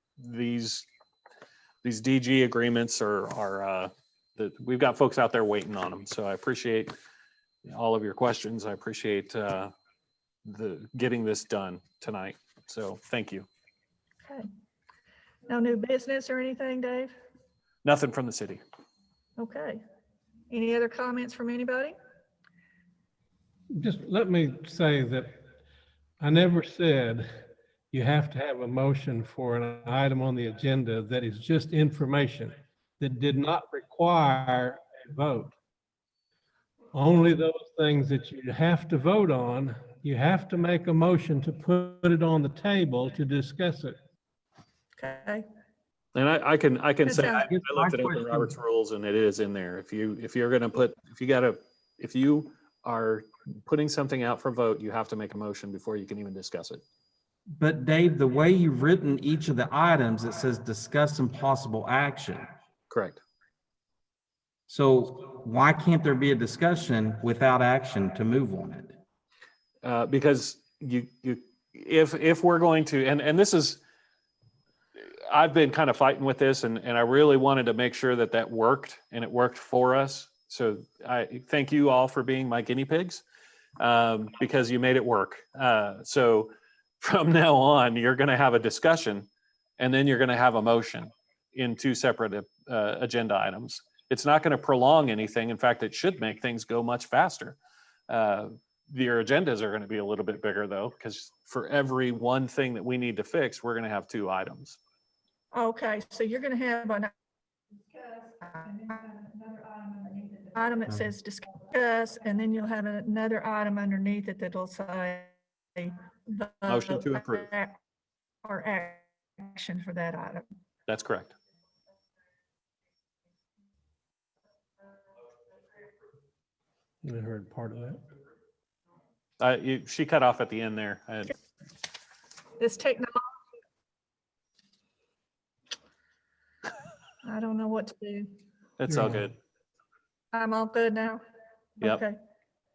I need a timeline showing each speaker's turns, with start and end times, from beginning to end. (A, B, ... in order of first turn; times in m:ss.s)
0:00.2-0:00.9 A
0:01.8-0:06.9 A
0:07.6-0:09.7 A
0:10.4-0:13.5 A
0:15.5-0:17.1 B
0:17.8-0:18.6 A
0:19.4-0:19.8 B
0:20.5-0:22.0 B
0:23.7-0:25.3 C
0:26.2-0:27.3 C
0:27.9-0:35.5 C
0:36.9-0:44.0 C
0:45.0-0:45.4 B
0:46.2-0:56.8 A
0:47.0-0:47.5 B
0:47.4-0:48.5 D
0:57.5-1:02.5 D
1:02.9-1:03.2 A
1:04.7-1:08.9 D
1:09.8-1:13.8 A
1:15.3-1:23.2 A
1:23.8-1:29.3 A
1:29.8-1:37.6 A
1:38.1-1:44.8 A
1:45.5-1:47.1 B
1:47.9-1:57.8 B
1:56.7-1:57.5 A
1:58.4-2:00.4 B
2:00.9-2:01.3 A
2:07.0-2:08.0 C
2:09.4-2:11.3 A
2:12.6-2:13.1 B
2:17.2-2:18.3 B
2:18.8-2:19.4 A
2:18.9-2:19.3 C
2:20.3-2:21.2 B
2:21.8-2:22.2 B